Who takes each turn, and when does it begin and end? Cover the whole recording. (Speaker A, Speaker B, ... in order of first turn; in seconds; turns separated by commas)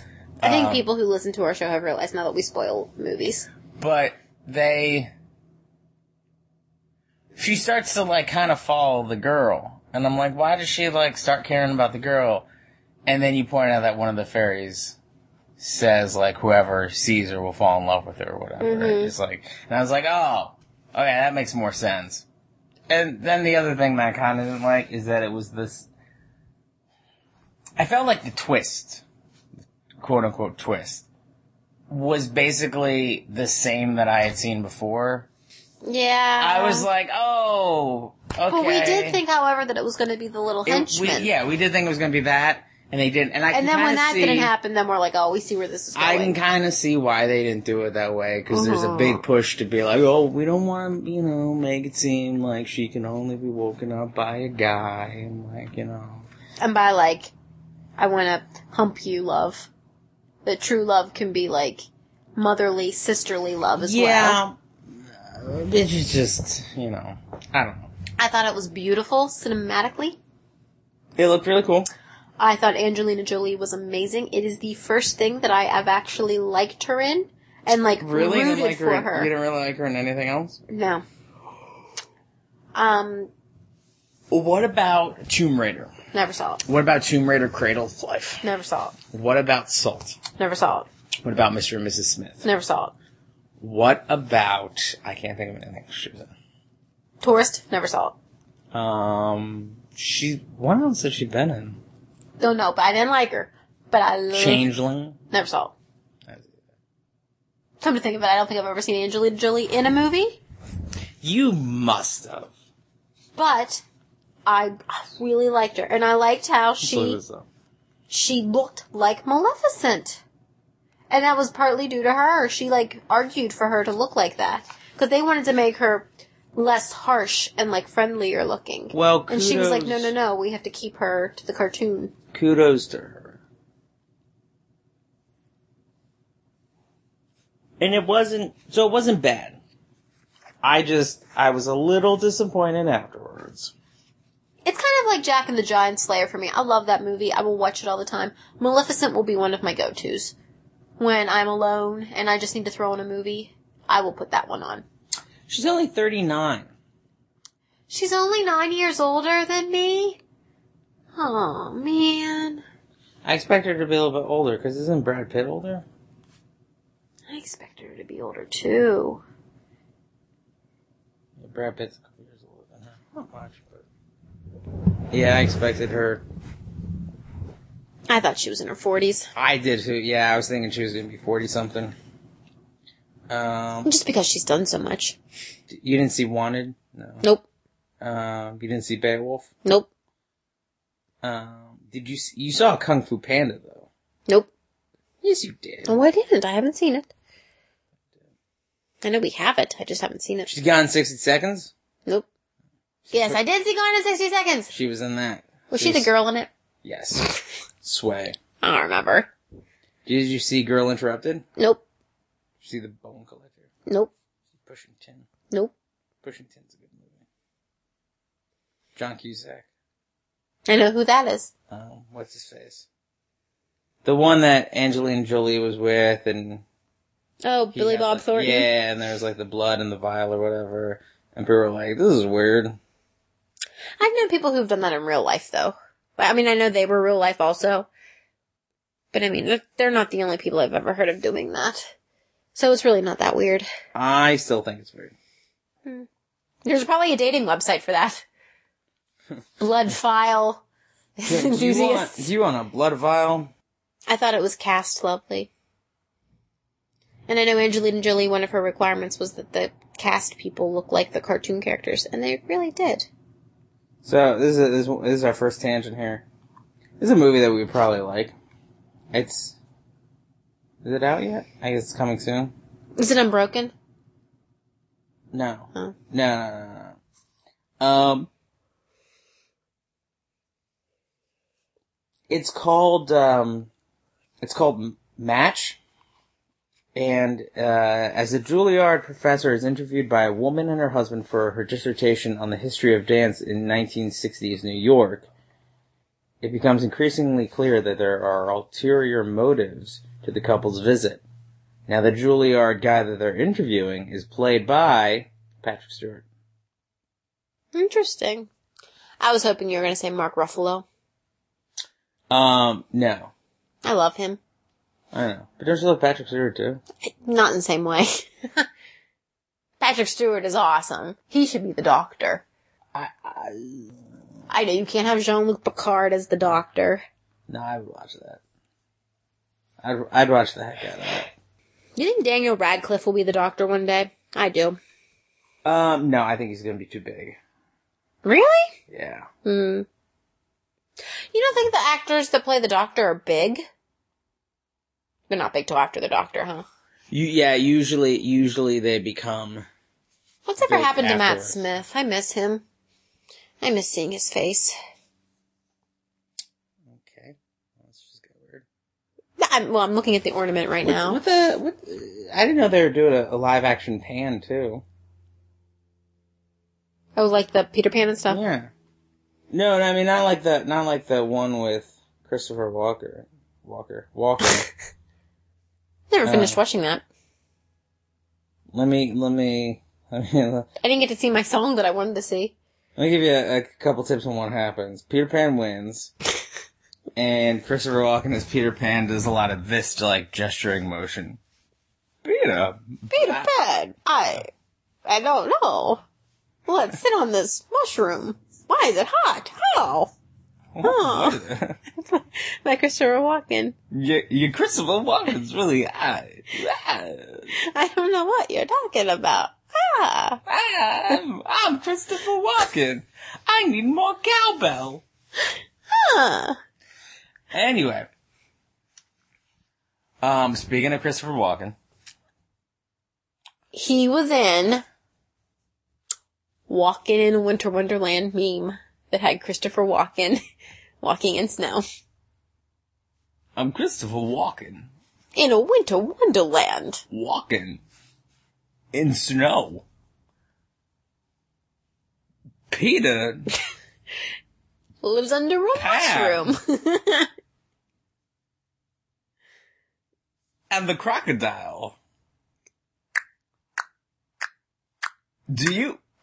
Speaker A: 0.4-0.9, Speaker B: 0.4-3.5, Speaker A: 3.8-5.1, Speaker A: 7.4-12.5, Speaker A: 13.1-15.0, Speaker A: 15.6-22.2, Speaker B: 18.6-19.1, Speaker A: 22.9-25.9, Speaker A: 27.8-29.0, Speaker A: 30.0-31.1, Speaker A: 31.9-35.3, Speaker B: 35.8-36.9, Speaker A: 36.4-39.2, Speaker B: 38.5-41.3, Speaker A: 40.7-44.5, Speaker B: 43.5-46.4, Speaker A: 46.0-56.2, Speaker B: 48.5-49.2, Speaker B: 56.6-57.3, Speaker B: 58.0-59.7, Speaker B: 60.4-64.4, Speaker A: 63.8-67.9, Speaker B: 68.2-70.2, Speaker A: 71.2-71.9, Speaker B: 72.4-79.3, Speaker A: 78.0-80.6, Speaker B: 80.7-81.0, Speaker B: 82.7-83.3, Speaker A: 84.3-85.9, Speaker B: 86.1-86.6, Speaker A: 86.6-88.4, Speaker B: 88.4-89.0, Speaker A: 89.1-90.2, Speaker B: 90.4-90.9, Speaker A: 91.2-92.5, Speaker B: 92.4-92.9, Speaker A: 93.6-96.3, Speaker B: 97.2-98.2, Speaker A: 98.7-101.8, Speaker B: 102.4-104.7, Speaker A: 104.3-105.2, Speaker B: 105.3-105.7, Speaker A: 106.3-106.5, Speaker B: 107.8-110.4, Speaker A: 111.2-112.5, Speaker B: 113.3-113.8, Speaker B: 114.5-117.2, Speaker A: 116.8-117.5, Speaker B: 118.1-120.2, Speaker B: 121.1-132.1, Speaker A: 128.9-130.1, Speaker A: 132.3-133.4, Speaker A: 137.8-139.6, Speaker A: 140.6-143.7, Speaker B: 144.7-150.3, Speaker B: 151.0-154.8, Speaker A: 155.5-156.7, Speaker B: 157.9-160.2, Speaker B: 161.1-162.6, Speaker A: 163.2-165.8, Speaker B: 167.3-169.2, Speaker A: 171.4-173.8, Speaker A: 175.1-176.2, Speaker B: 178.1-179.3, Speaker A: 179.3-181.9, Speaker A: 183.3-183.9, Speaker B: 183.8-185.2, Speaker A: 185.7-187.2, Speaker A: 188.0-189.5, Speaker A: 191.2-193.9, Speaker A: 195.2-196.0, Speaker B: 195.8-197.1, Speaker B: 199.0-200.5, Speaker A: 200.5-201.7, Speaker A: 203.1-203.4, Speaker B: 203.1-204.7, Speaker A: 204.7-206.1, Speaker B: 205.7-206.5, Speaker A: 206.8-207.3, Speaker A: 207.8-208.4, Speaker B: 208.6-209.3, Speaker A: 210.1-211.4, Speaker B: 211.6-211.8, Speaker A: 212.6-213.7, Speaker A: 214.6-215.3, Speaker A: 216.2-217.2, Speaker A: 219.0-219.7, Speaker B: 220.7-221.5, Speaker A: 221.7-222.9, Speaker A: 224.0-226.6, Speaker B: 227.4-228.7, Speaker A: 227.7-232.8, Speaker B: 234.0-237.9, Speaker B: 239.1-241.8, Speaker B: 242.5-243.7, Speaker A: 243.9-245.2, Speaker B: 246.7-248.2, Speaker B: 249.6-250.6, Speaker B: 251.2-252.3, Speaker A: 251.3-253.5, Speaker B: 254.1-255.5, Speaker B: 257.3-263.1, Speaker A: 264.0-266.2, Speaker A: 267.0-268.3, Speaker A: 269.1-269.6, Speaker A: 270.8-272.5, Speaker B: 273.0-273.7, Speaker A: 275.3-277.0, Speaker A: 277.8-278.3, Speaker A: 282.3-283.7, Speaker A: 284.4-285.8, Speaker A: 286.9-295.3, Speaker A: 296.4-301.2, Speaker A: 301.9-306.2, Speaker B: 307.7-308.5, Speaker B: 309.2-310.8, Speaker A: 312.3-313.3, Speaker B: 313.8-314.4, Speaker A: 315.1-316.8, Speaker B: 317.0-318.7, Speaker B: 319.8-322.4, Speaker A: 322.9-323.9, Speaker B: 324.5-327.0, Speaker A: 327.5-328.4, Speaker A: 329.8-331.3, Speaker B: 332.0-334.8, Speaker A: 335.6-337.4, Speaker B: 338.2-338.7, Speaker A: 338.9-339.3, Speaker B: 339.4-339.9, Speaker B: 341.3-343.6, Speaker B: 345.3-346.6, Speaker A: 347.1-349.7, Speaker B: 350.5-352.6, Speaker A: 350.6-351.7, Speaker B: 353.6-354.8, Speaker A: 356.9-358.6, Speaker B: 359.4-361.2, Speaker A: 360.8-364.8, Speaker B: 367.2-368.4, Speaker A: 368.3-368.7, Speaker A: 369.5-374.7, Speaker B: 376.1-377.0, Speaker A: 376.2-376.6, Speaker A: 378.7-380.7, Speaker B: 380.8-382.5, Speaker A: 383.0-386.1, Speaker A: 387.2-391.4, Speaker A: 392.2-393.5, Speaker B: 393.1-394.5, Speaker B: 395.0-396.0, Speaker B: 396.7-400.1, Speaker A: 400.8-401.8, Speaker B: 400.8-401.4, Speaker B: 402.0-403.8, Speaker A: 403.9-407.5, Speaker B: 407.5-410.4, Speaker A: 410.5-415.0, Speaker B: 415.9-416.6, Speaker A: 417.5-418.1, Speaker A: 420.2-421.8, Speaker B: 423.7-424.8, Speaker B: 426.7-430.4, Speaker B: 431.0-431.8, Speaker A: 433.6-434.9, Speaker B: 435.3-437.0, Speaker A: 437.1-437.8, Speaker A: 438.9-439.8, Speaker A: 442.7-443.5, Speaker B: 445.0-447.3, Speaker A: 445.7-446.5, Speaker A: 450.7-452.0, Speaker A: 455.5-456.0